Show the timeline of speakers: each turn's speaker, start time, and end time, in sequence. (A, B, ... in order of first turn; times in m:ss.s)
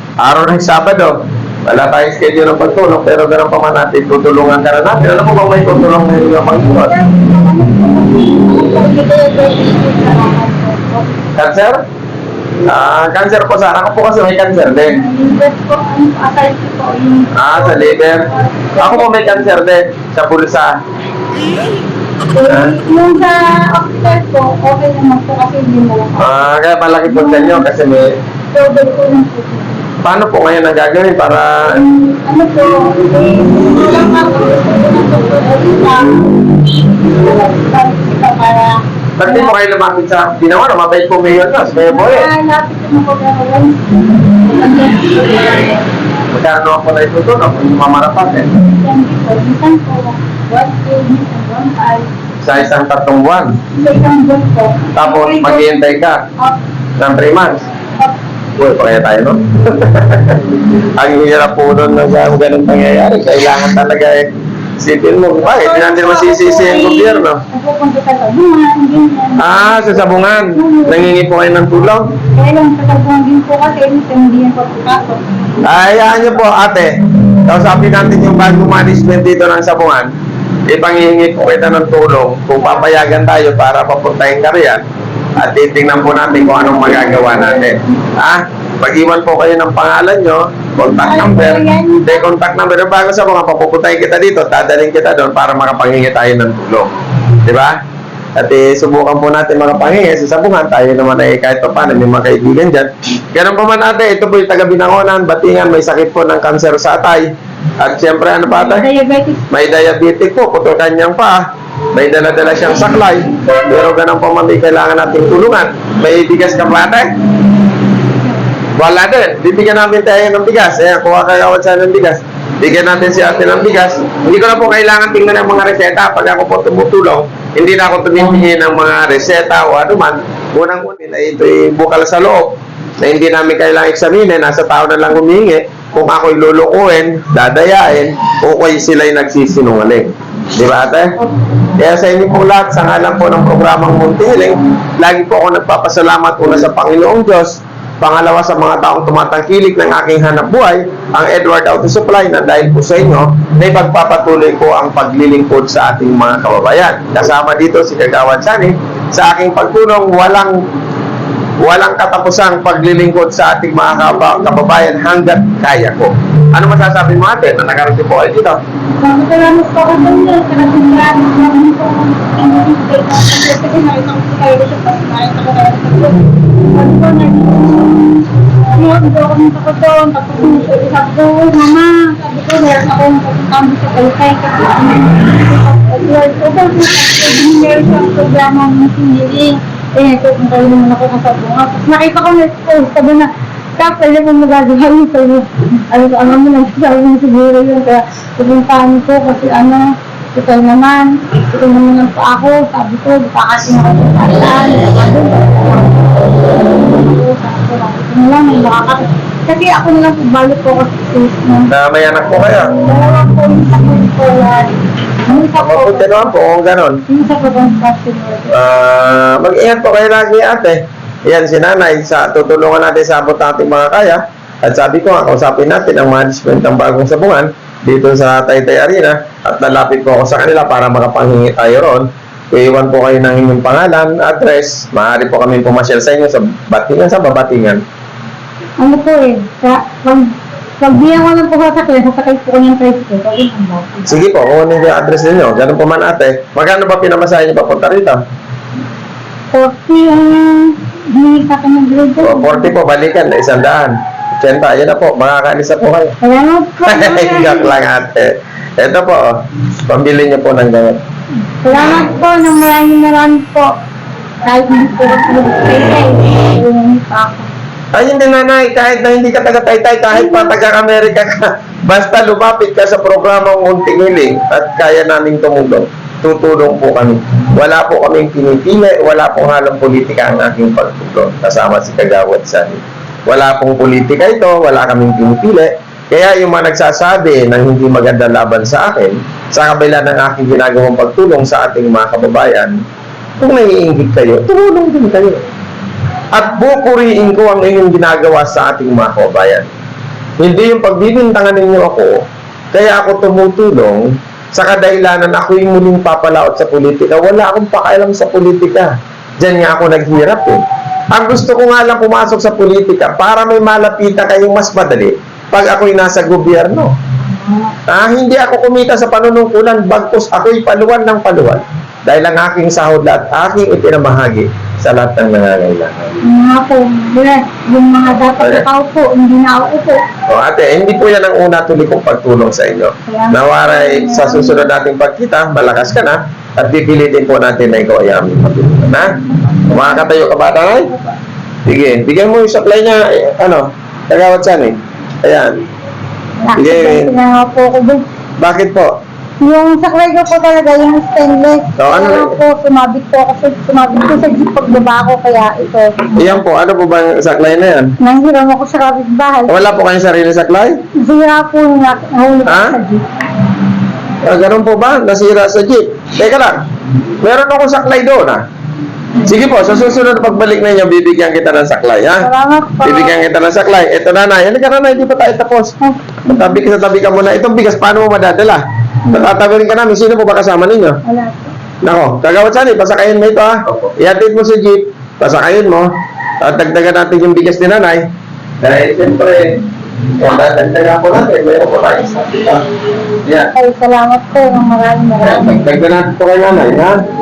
0:00.2-0:06.9 A
0:06.5-0:11.2 B
0:11.4-0:11.8 A
0:12.7-0:15.0 A
0:14.9-0:19.6 B
0:17.4-0:20.8 A
0:22.3-0:26.5 B
0:22.5-0:22.8 A
0:26.2-0:28.2 A
0:27.1-0:27.6 B
0:28.5-0:29.9 B
0:30.0-0:31.8 A
0:31.7-0:39.5 B
0:39.2-0:42.3 A
0:41.8-0:45.8 B
0:46.3-0:48.6 A
0:48.6-0:52.1 B
0:52.4-0:53.6 A
0:53.7-0:55.8 B
0:55.0-0:56.2 A
0:57.0-0:57.6 A
0:58.6-1:04.3 A
1:04.8-1:07.4 A
1:05.4-1:11.1 B
1:09.4-1:12.1 A
1:12.3-1:15.7 B
1:15.6-1:20.1 A
1:20.7-1:24.8 A
1:25.4-1:36.9 A
1:30.8-1:32.2 B
1:37.4-1:37.8 A
1:38.4-1:47.3 A
1:47.8-1:48.9 A
1:48.5-1:49.4 B
1:49.5-1:57.1 A
1:58.8-2:21.1 A
2:21.8-2:40.6 A
2:41.6-2:48.6 A
2:49.0-2:58.1 B
2:58.7-3:31.7 B
3:31.7-3:32.7 A
3:32.7-3:34.8 B
3:35.3-3:36.4 B
3:35.6-3:37.0 A
3:37.1-3:38.5 B
3:38.5-3:57.8 A
3:58.8-4:04.2 B
4:04.1-4:08.2 A
4:09.5-4:12.7 B
4:12.2-4:16.2 A
4:16.2-4:17.7 B
4:16.9-4:19.3 A
4:19.9-4:21.0 A
4:21.6-4:23.7 B
4:24.5-4:27.5 B
4:27.9-4:52.8 A
4:30.1-4:30.5 B
4:53.4-4:55.4 A
4:56.3-4:59.7 A
5:00.4-5:16.9 A
5:17.2-5:17.8 B
5:17.9-5:26.2 A
5:26.2-5:30.0 B
5:28.4-5:28.6 A
5:30.3-5:40.9 A
5:33.1-5:34.7 B
5:41.7-5:45.6 A
5:46.4-5:48.0 B
5:46.6-5:47.1 A
5:48.4-5:48.9 A
5:49.4-5:56.4 B
5:51.8-5:52.4 A
5:56.2-5:57.9 A
5:58.0-5:59.6 B
5:59.5-6:00.8 A
6:01.0-6:03.0 B
6:02.5-6:02.8 A
6:04.2-6:06.6 A
6:07.2-6:08.4 A
6:09.2-6:12.3 A
6:12.2-6:13.2 B
6:12.8-6:15.7 A
6:15.8-6:16.5 B
6:16.3-6:21.0 A
6:21.0-6:21.5 B
6:21.8-6:25.9 A
6:26.4-6:28.1 A
6:28.6-6:29.6 A
6:30.2-6:32.6 A
6:33.2-6:33.5 A
6:33.5-6:35.6 B
6:35.2-6:37.0 A